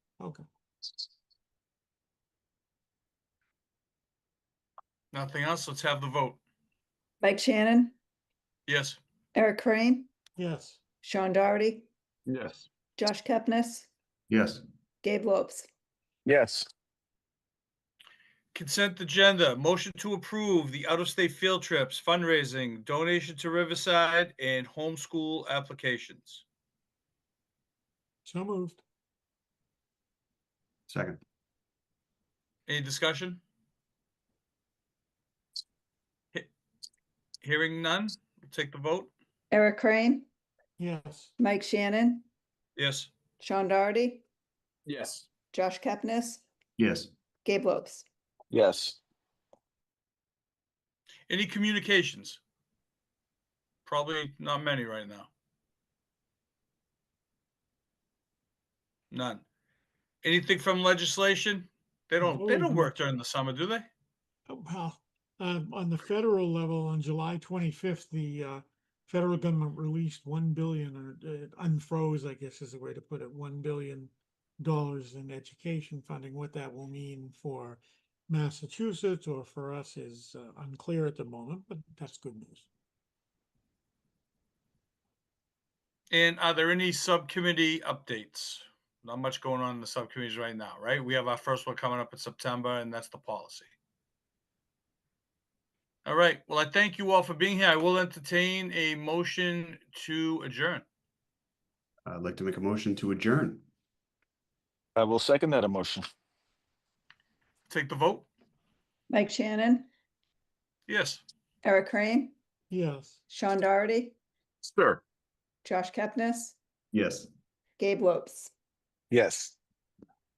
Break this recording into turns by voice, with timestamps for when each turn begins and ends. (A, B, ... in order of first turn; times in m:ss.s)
0:05.1-0:06.4 A
0:07.2-0:07.9 B
0:08.7-0:09.0 A
0:09.3-0:10.1 B
0:10.4-0:10.8 C
0:11.0-0:11.9 B
0:12.3-0:12.6 D
0:13.0-0:13.9 B
0:14.3-0:14.6 E
0:15.0-0:15.7 B
0:16.2-0:16.7 D
0:18.5-0:26.4 A
0:28.3-0:28.8 C
0:30.9-0:31.2 E
0:32.7-0:33.4 A
0:37.4-0:39.1 A
0:39.5-0:40.3 B
0:40.8-0:41.3 C
0:41.4-0:42.2 B
0:42.8-0:43.1 A
0:43.4-0:44.2 B
0:44.8-0:45.2 D
0:45.5-0:46.4 B
0:46.8-0:47.1 E
0:47.4-0:48.0 B
0:48.5-0:49.0 D
0:51.3-0:52.4 A
0:53.8-0:55.3 A
0:59.1-0:59.4 A
1:00.2-1:03.9 A
1:02.3-1:02.8 C
1:04.5-1:22.6 C
1:26.1-1:33.7 A
1:36.0-1:40.8 A
1:42.0-1:43.6 E
1:45.0-1:46.1 D
1:47.7-1:48.3 A
1:49.1-1:49.9 B
1:50.9-1:51.2 A
1:51.6-1:52.3 B
1:52.7-1:53.2 C
1:53.3-1:54.1 B
1:54.6-1:55.0 D
1:55.6-1:56.5 B
1:56.9-1:57.3 E
1:57.8-1:58.5 B
1:59.1-1:59.5 D